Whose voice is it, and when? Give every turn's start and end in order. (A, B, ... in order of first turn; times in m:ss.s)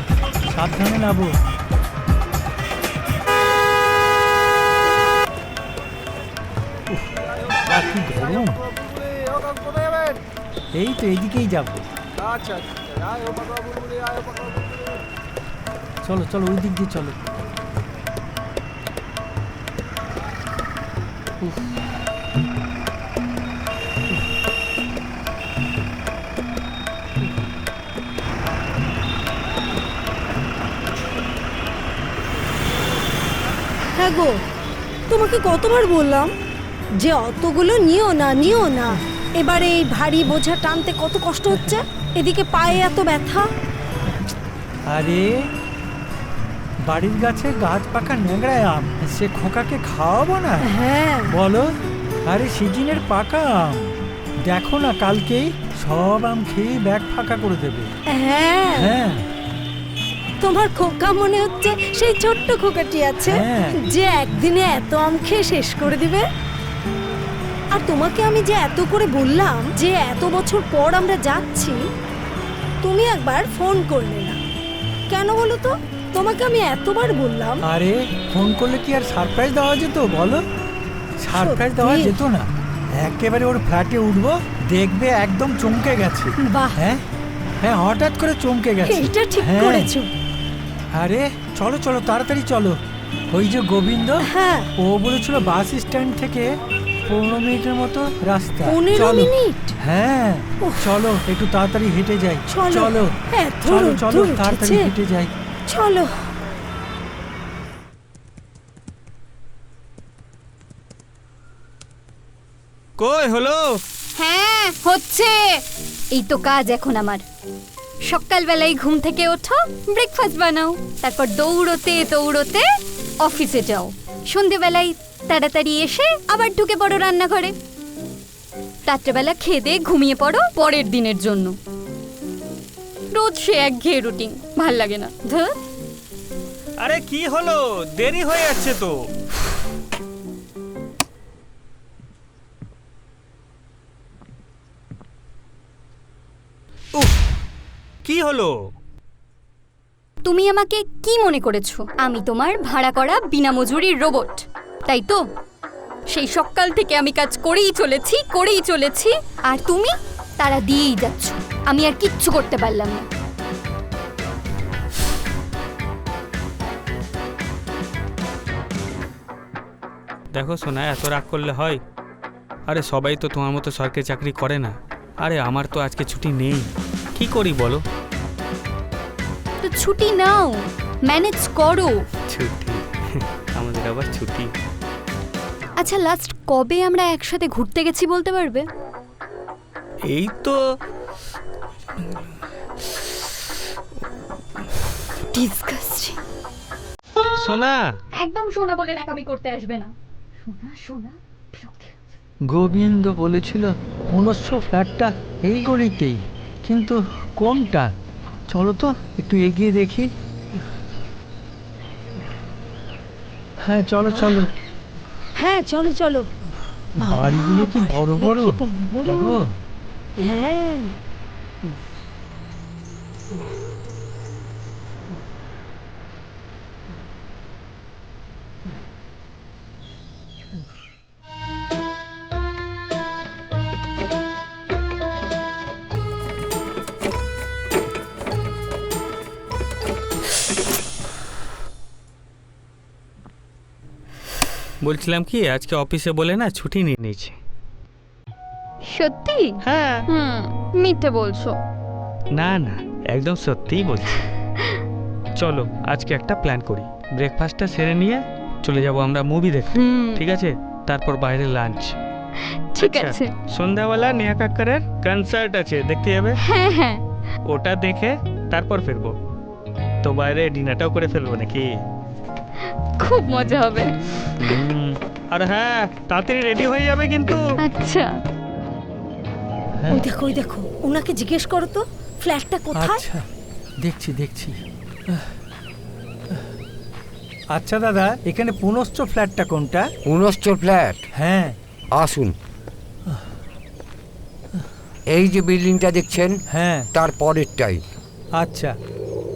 0:00.5-0:01.4 A
0:06.9-0:08.6 A
0:10.8-0:11.8 A
0:16.0-0:17.2 A
0:33.9-0:34.4 B
0:35.1-0:36.3 B
0:37.0-0:43.4 B
0:44.9-0:45.4 A
0:46.9-0:50.7 A
0:50.6-0:51.3 B
0:51.3-0:51.7 A
0:52.2-0:57.9 A
0:58.1-0:58.9 B
0:58.8-0:59.2 A
1:00.4-1:06.2 B
1:03.3-1:03.8 A
1:07.7-1:11.8 B
1:12.8-1:14.4 B
1:15.1-1:17.6 B
1:17.6-1:20.4 A
1:21.2-1:22.5 A
1:21.3-1:22.2 B
1:23.0-1:27.0 A
1:26.4-1:26.8 B
1:27.6-1:29.9 A
1:28.8-1:30.1 B
1:30.9-1:32.8 A
1:33.3-1:34.3 A
1:34.2-1:34.7 B
1:34.8-1:45.3 A
1:38.7-1:39.8 B
1:42.5-1:44.9 B
1:45.7-1:46.1 B
1:53.0-1:53.8 C
1:54.2-1:55.4 D
1:56.2-1:57.2 D
1:58.1-2:02.7 D
2:03.2-2:07.5 D
2:08.9-2:11.6 D
2:13.1-2:15.5 D
2:16.8-2:19.0 C
2:28.0-2:28.5 C
2:30.2-2:35.2 D
2:36.1-2:43.1 D
2:50.3-2:51.8 C
2:52.7-2:57.8 C
2:59.6-3:02.0 D
3:02.3-3:04.5 C
3:05.8-3:08.6 D
3:10.1-3:10.6 C
3:15.3-3:16.2 D
3:17.4-3:18.0 C
3:18.2-3:19.9 D
3:20.5-3:21.9 D
3:22.5-3:27.9 A
3:28.5-3:30.1 A
3:33.6-3:34.5 A
3:35.4-3:36.3 B
3:37.0-3:39.5 A
3:37.0-3:39.3 B
3:40.2-3:40.9 B
4:04.8-4:07.4 C
4:08.9-4:11.6 D
4:09.7-4:10.0 C
4:12.4-4:14.2 C
4:15.4-4:22.0 C
4:19.7-4:20.2 D
4:22.7-4:23.3 D
4:22.8-4:26.4 C
4:26.4-4:27.0 D
4:27.5-4:29.2 C
4:30.0-4:31.7 C
4:33.0-4:34.0 D
4:34.4-4:37.4 C
4:37.6-4:38.1 D
4:39.9-4:43.0 B
4:42.8-4:43.2 A
4:43.8-4:45.3 A
4:47.5-4:49.9 A
4:50.0-4:51.1 E
4:51.1-4:51.6 A
4:51.9-4:52.4 E
4:55.1-4:57.8 E
4:56.5-4:56.9 A
4:58.4-4:58.8 A